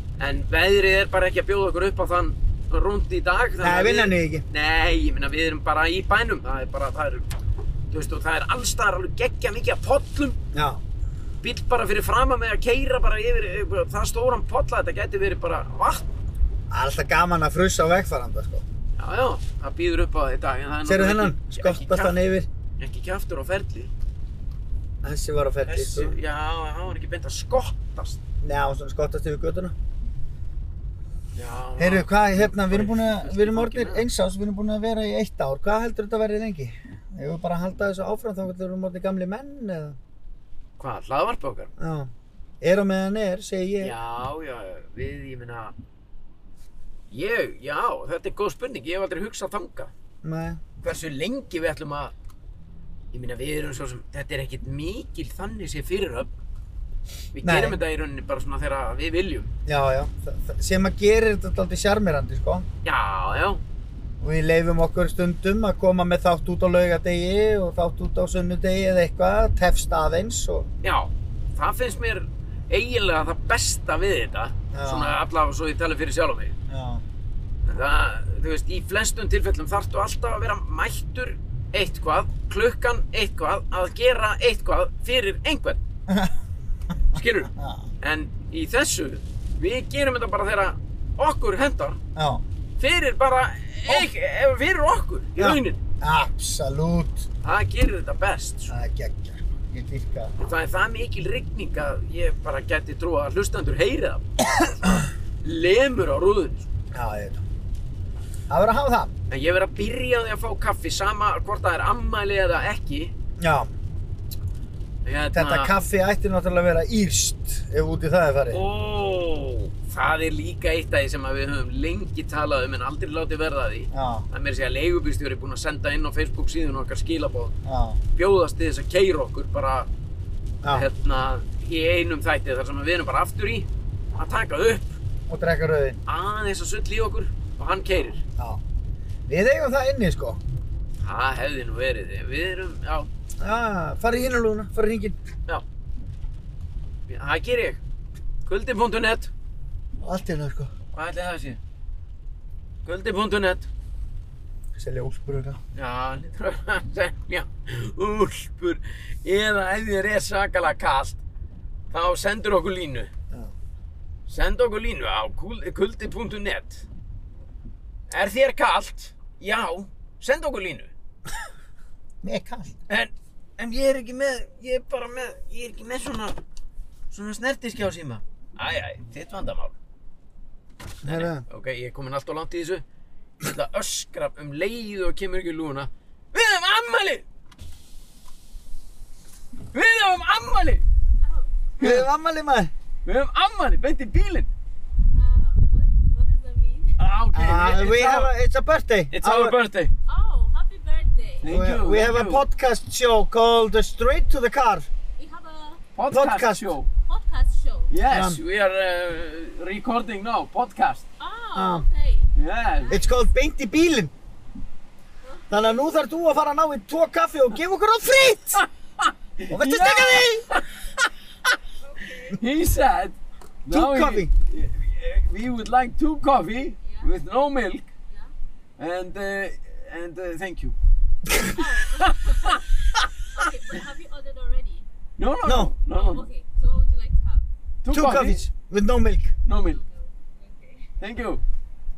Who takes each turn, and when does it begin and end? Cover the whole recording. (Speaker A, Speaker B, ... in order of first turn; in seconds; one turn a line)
Speaker A: 0.2-7.2
Speaker B: 3.6-4.5
Speaker A: 7.9-10.4
Speaker B: 10.5-10.8
Speaker A: 11.4-16.1
Speaker B: 16.7-18.6
Speaker A: 19.0-22.2
Speaker B: 20.9-22.5
Speaker A: 22.8-23.9
Speaker B: 25.0-26.2
Speaker A: 25.7-28.2
Speaker B: 28.4-29.8
Speaker A: 31.4-34.1
Speaker B: 31.8-40.0
Speaker A: 40.8-41.7
Speaker B: 41.8-44.0
Speaker A: 43.8-45.8
Speaker A: 47.1-49.9
Speaker B: 50.2-50.6
Speaker A: 50.8-52.1
Speaker A: 53.1-56.3
Speaker A: 57.3-59.5
Speaker B: 57.4-57.8
Speaker B: 59.7-62.7
Speaker A: 62.8-63.6
Speaker B: 64.2-70.7
Speaker A: 70.8-76.6
Speaker B: 74.7-75.2
Speaker B: 76.7-77.0
Speaker A: 77.7-85.8
Speaker B: 86.1-86.4
Speaker A: 87.1-87.5
Speaker B: 87.5-87.8
Speaker A: 88.0-92.0
Speaker B: 92.2-92.4
Speaker A: 92.8-95.8
Speaker B: 95.4-97.2
Speaker A: 97.4-98.7
Speaker B: 98.7-100.3
Speaker A: 100.4-104.2
Speaker B: 104.6-105.0
Speaker A: 105.4-106.7
Speaker B: 106.9-107.4
Speaker B: 108.5-109.1
Speaker A: 109.3-113.1
Speaker B: 113.4-113.7
Speaker A: 115.0-115.8
Speaker B: 115.3-118.6
Speaker A: 118.5-127.5
Speaker B: 123.9-124.3
Speaker B: 127.7-128.0
Speaker A: 128.1-129.9
Speaker B: 130.6-130.9
Speaker A: 130.7-135.0
Speaker B: 135.3-136.0
Speaker A: 136.1-138.2
Speaker B: 139.3-140.4
Speaker A: 141.0-143.1
Speaker B: 143.4-145.2
Speaker A: 147.1-147.8
Speaker A: 148.5-149.3
Speaker B: 150.0-150.7
Speaker A: 150.9-151.6
Speaker A: 152.8-153.7
Speaker B: 154.8-155.6
Speaker A: 155.7-161.2
Speaker A: 161.9-163.1
Speaker A: 164.3-166.9
Speaker A: 168.1-170.9
Speaker B: 172.2-172.8
Speaker A: 172.9-176.4
Speaker A: 177.1-179.8
Speaker B: 181.0-181.4
Speaker A: 181.0-182.8
Speaker A: 183.4-187.2
Speaker A: 189.7-190.8
Speaker C: 191.2-191.5
Speaker B: 191.8-192.7
Speaker A: 191.8-192.1
Speaker A: 193.1-194.5
Speaker C: 195.1-197.0
Speaker A: 197.0-198.3
Speaker B: 197.3-199.6
Speaker A: 199.1-199.9
Speaker C: 200.1-201.6
Speaker A: 201.4-202.5
Speaker B: 201.5-204.9
Speaker C: 205.2-205.8
Speaker A: 206.0-206.9
Speaker B: 206.1-206.7
Speaker C: 207.1-207.9
Speaker A: 207.9-211.0
Speaker B: 208.1-208.4
Speaker C: 211.2-213.2
Speaker B: 211.5-211.9
Speaker A: 212.4-212.9
Speaker B: 212.9-214.1
Speaker C: 215.2-216.0
Speaker B: 215.5-218.6
Speaker A: 218.6-220.7
Speaker B: 219.5-220.5
Speaker C: 221.8-222.4
Speaker A: 222.3-227.9
Speaker B: 223.7-224.3
Speaker C: 226.8-227.1
Speaker A: 228.8-230.8
Speaker C: 231.5-232.7
Speaker A: 232.0-233.1
Speaker C: 233.3-234.9
Speaker A: 235.2-236.2
Speaker B: 235.4-235.7
Speaker C: 235.9-237.4
Speaker A: 237.8-238.5
Speaker B: 237.9-239.3
Speaker A: 239.5-239.8
Speaker C: 239.5-240.9
Speaker A: 241.0-241.4